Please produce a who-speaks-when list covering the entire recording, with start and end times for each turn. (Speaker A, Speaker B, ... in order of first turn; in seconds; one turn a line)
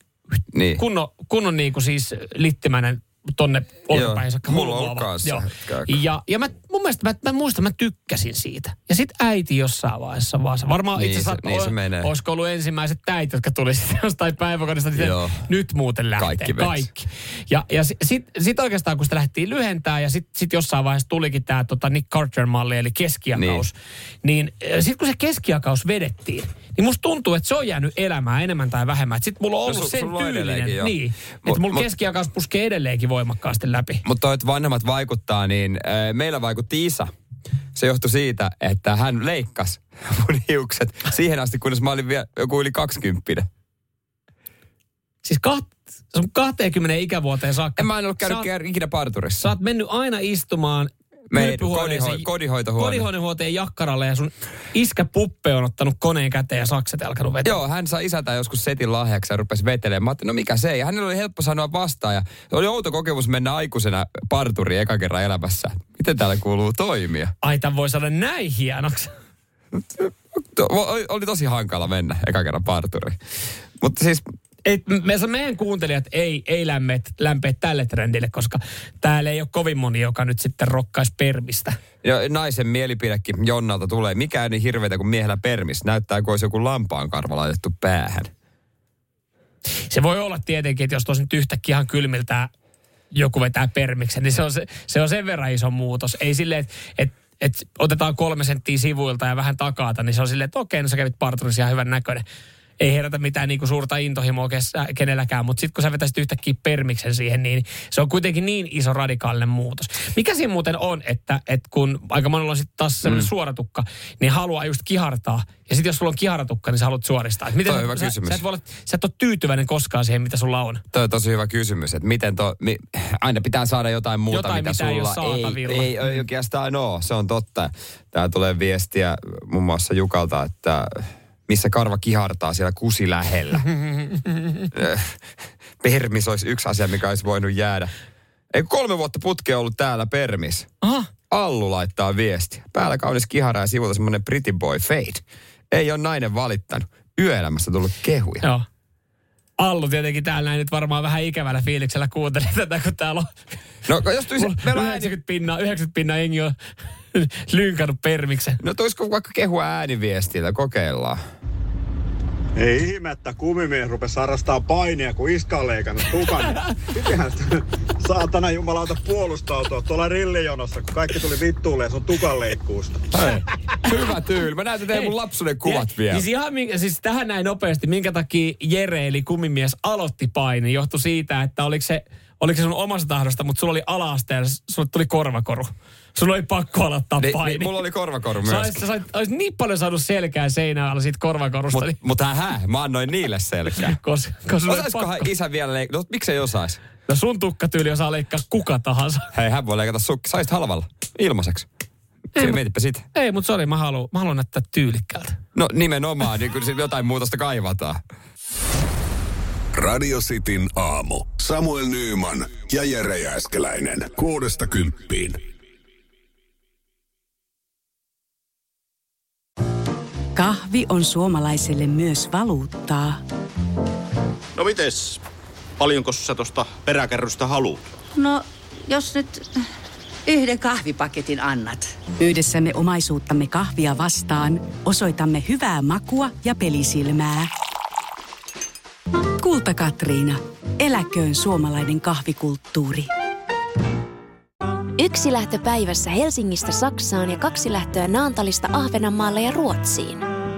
Speaker A: 0.5-0.8
Speaker B: 0.8-34.0
Speaker A: 3.9-6.0
Speaker A: 10.9-12.1
Speaker A: 14.9-15.4
Speaker A: 16.2-16.9
Speaker A: 23.4-23.7
Speaker A: 29.6-31.9
Speaker A: 34.0-37.1
Speaker A: 37.8-43.5
Speaker B: 45.2-48.5
Speaker A: 47.8-49.5
Speaker B: 49.4-57.6
Speaker A: 51.3-53.1
Speaker A: 57.4-67.3
Speaker B: 67.4-69.1
Speaker A: 69.8-73.2
Speaker A: 73.8-74.2
Speaker B: 74.7-81.8
Speaker A: 82.0-88.3
Speaker B: 89.9-92.5
Speaker B: 93.1-102.2
Speaker B: 102.8-120.8
Speaker A: 113.0-113.3
Speaker A: 117.6-118.4
Speaker A: 120.9-133.7
Speaker B: 124.3-126.2
Speaker A: 134.7-135.2
Speaker A: 135.8-137.9
Speaker A: 138.5-140.7
Speaker B: 140.8-141.1
Speaker A: 141.3-148.5
Speaker B: 149.6-153.3
Speaker A: 153.9-155.1
Speaker B: 154.3-156.6
Speaker B: 157.1-158.6
Speaker A: 158.6-161.2
Speaker C: 162.6-173.0
Speaker A: 173.1-176.2
Speaker B: 174.9-175.1
Speaker B: 175.6-187.8
Speaker A: 187.2-188.8
Speaker B: 188.4-192.0
Speaker A: 191.7-194.0
Speaker B: 193.8-195.3
Speaker A: 194.7-196.8
Speaker B: 197.1-199.3
Speaker A: 199.3-201.7
Speaker A: 202.4-203.0
Speaker B: 203.2-205.4
Speaker A: 205.6-208.0
Speaker D: 209.8-215.4
Speaker E: 220.4-223.2
Speaker F: 224.6-225.2
Speaker F: 225.8-227.8
Speaker G: 228.2-229.6
Speaker G: 230.3-231.9
Speaker E: 232.2-237.5
Speaker E: 239.4-243.1
Speaker H: 245.0-250.2